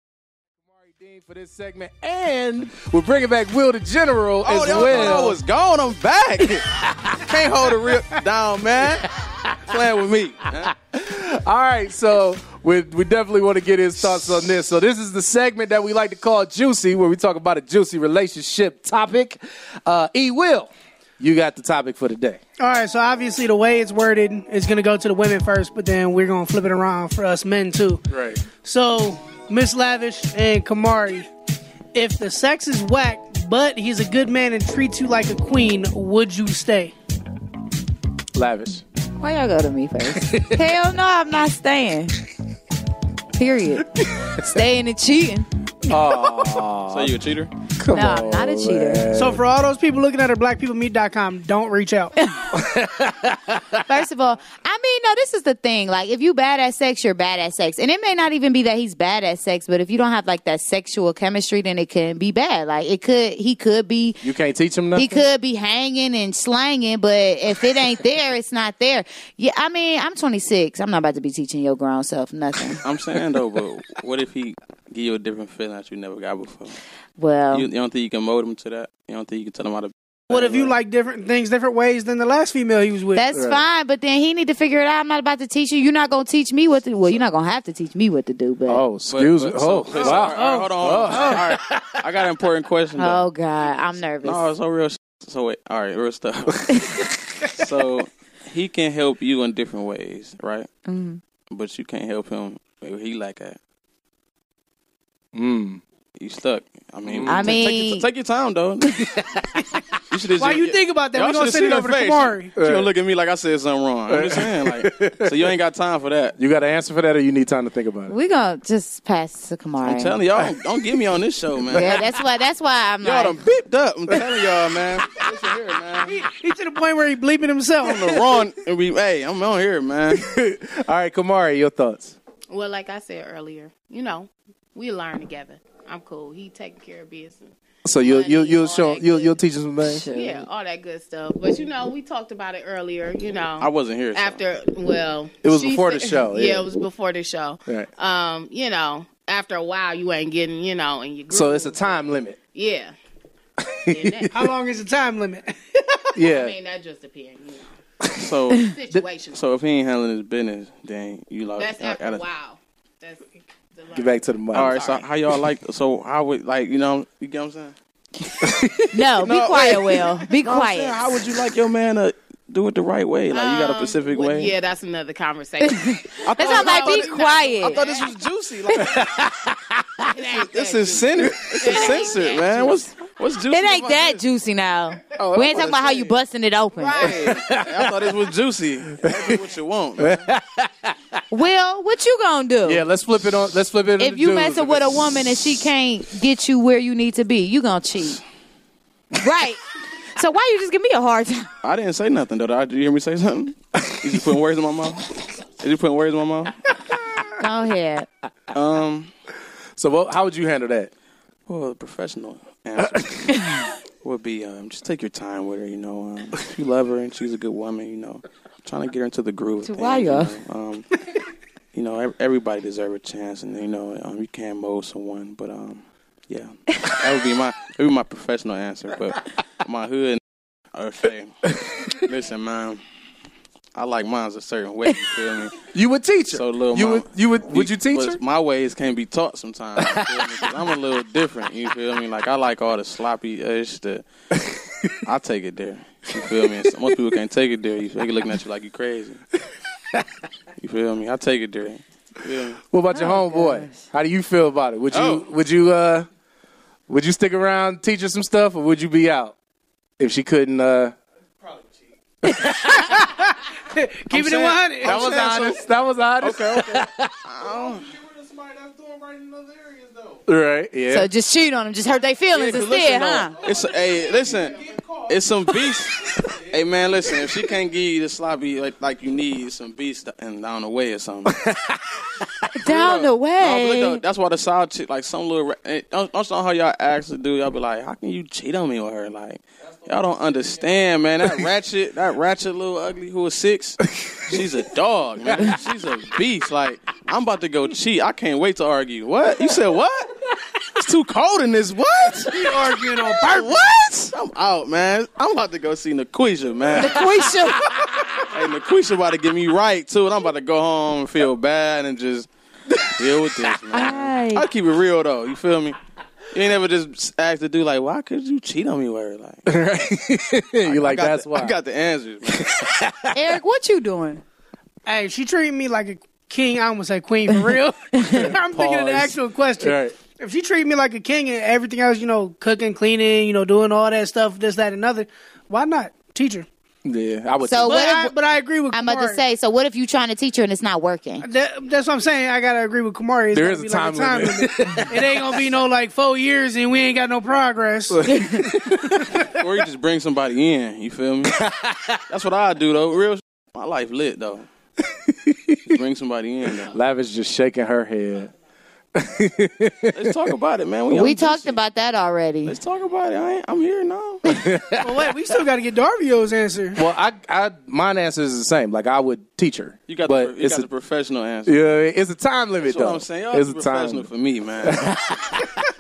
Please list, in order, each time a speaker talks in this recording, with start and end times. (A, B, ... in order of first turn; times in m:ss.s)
0:00.6-0:05.4 A
0:04.4-0:06.6 B
0:06.6-0:07.4 A
0:07.2-0:09.1 B
0:09.2-0:09.5 A
0:09.6-0:10.7 B
0:10.6-0:20.7 A
0:21.2-0:22.4 A
0:22.6-0:28.0 C
0:28.1-0:28.4 A
0:28.5-0:31.3 C
0:31.9-0:36.9 C
0:38.3-0:38.8 A
0:39.2-0:42.2 D
0:40.3-0:40.6 A
0:43.3-0:45.5 D
0:44.0-0:44.4 A
0:45.9-0:47.2 A
0:46.9-0:47.5 B
0:47.8-0:49.4 A
0:47.9-0:49.1 D
0:49.2-0:52.1 C
0:52.2-0:52.5 D
0:52.5-0:53.8 A
0:53.9-1:04.2 D
1:04.2-1:05.2 A
1:04.9-1:12.8 D
1:12.8-1:16.8 B
1:17.2-1:17.7 D
1:17.5-1:20.8 B
1:20.3-1:23.2 C
1:23.2-1:28.9 D
1:23.3-1:23.6 A
1:28.7-1:32.0 A
1:29.1-1:33.3 B
1:29.9-1:31.4 C
1:33.0-1:34.5 D
1:34.2-1:40.7 B
1:36.7-1:37.0 D
1:40.9-1:41.2 D
1:41.5-1:43.6 B
1:45.4-1:45.8 A
1:46.2-1:49.1 B
1:47.0-1:47.6 A
1:47.3-1:48.1 D
1:49.2-1:49.8 A
1:50.1-1:56.4 B
1:50.4-1:52.5 C
1:52.6-1:52.9 A
1:54.1-1:55.5 A
1:56.4-1:58.1 A
1:58.1-2:00.2 D
1:59.8-2:02.0 B
2:01.6-2:02.2 A
2:01.7-2:03.4 D
2:03.0-2:06.2 B
2:06.1-2:08.0 C
2:07.8-2:10.2 B
2:08.1-2:08.4 A
2:10.1-2:12.2 A
2:12.5-2:19.4 E
2:17.8-2:20.0 A
2:19.8-2:20.4 D
2:20.1-2:32.9 E
2:23.6-2:24.4 B
2:25.4-2:26.9 A
2:31.3-2:32.4 A
2:33.6-2:34.3 A
2:33.9-2:34.3 E
2:34.3-2:36.1 C
2:36.2-2:36.6 A
2:36.2-2:37.7 E
2:38.2-2:38.7 B
2:38.6-2:39.5 E
2:39.3-2:42.2 B
2:41.6-2:45.0 E
2:43.9-2:44.9 A
2:44.5-2:47.8 B
2:48.4-2:49.0 A
2:48.9-2:51.1 D
2:49.2-2:54.5 B
2:53.3-2:58.1 E
2:55.6-2:57.8 D
2:56.2-2:58.9 B
2:58.8-3:00.1 A
3:00.1-3:02.8 E
3:00.3-3:04.2 B
3:01.2-3:01.8 A
3:03.5-3:07.1 D
3:05.2-3:06.1 B
3:06.7-3:07.2 E
3:07.0-3:08.1 A
3:07.1-3:10.3 B
3:09.0-3:09.3 A
3:10.0-3:11.0 A
3:11.3-3:12.8 D
3:12.6-3:15.6 A
3:14.0-3:18.2 D
3:19.2-3:21.5 D
3:21.6-3:26.7 B
3:27.4-3:28.1 D
3:28.5-3:29.1 B
3:29.8-3:30.9 A
3:31.5-3:33.5 B
3:34.0-3:41.0 B
3:39.6-3:40.4 D
3:41.7-3:50.2 B
3:50.7-3:51.4 B
3:51.5-3:51.9 A
3:51.9-3:52.8 B
3:53.8-3:55.7 B
3:55.7-3:58.2 A
3:56.3-4:04.1 B
3:59.8-4:00.7 A
4:04.3-4:05.0 A
4:05.0-4:09.2 B
4:10.6-4:12.6 B
4:12.7-4:16.1 A
4:12.9-4:13.8 D
4:14.9-4:15.3 B
4:16.9-4:19.4 A
4:20.0-4:21.0 A
4:22.2-4:23.0 A
4:22.9-4:25.5 C
4:24.1-4:25.6 B
4:24.8-4:27.1 A
4:26.2-4:30.2 B
4:30.3-4:31.1 A
4:30.9-4:33.4 D
4:32.3-4:41.4 B
4:41.3-4:42.5 A
4:42.6-4:44.0 D
4:42.7-5:00.1 B
5:00.8-5:07.4 B
5:02.3-5:03.6 C
5:06.8-5:07.6 D
5:07.0-5:08.1 A
5:08.2-5:15.8 B
5:13.7-5:14.5 D
5:16.3-5:19.4 B
5:19.5-5:21.6 A
5:20.6-5:22.6 B
5:22.3-5:23.4 A
5:23.1-5:24.2 D
5:24.9-5:36.5 C
5:28.0-5:28.2 D
5:28.1-5:30.0 A
5:36.8-5:37.7 A
5:37.4-5:38.1 D
5:37.6-5:39.2 C
5:38.7-5:41.3 D
5:41.2-5:48.0 C
5:43.3-5:45.2 A
5:47.9-5:49.3 A
5:48.0-5:48.5 D
5:49.4-5:51.4 B
5:51.2-5:52.0 A
5:52.1-5:54.5 B
5:55.0-5:55.6 A
5:55.7-5:56.7 B
5:56.6-5:58.3 A
5:59.0-6:00.2 A
5:59.9-6:01.6 B
6:00.9-6:02.6 D
6:02.4-6:04.3 B
6:04.2-6:05.1 A
6:04.8-6:06.8 C
6:06.8-6:10.7 A
6:09.9-6:11.6 B
6:11.5-6:14.1 A
6:12.6-6:14.8 B
6:14.6-6:15.7 A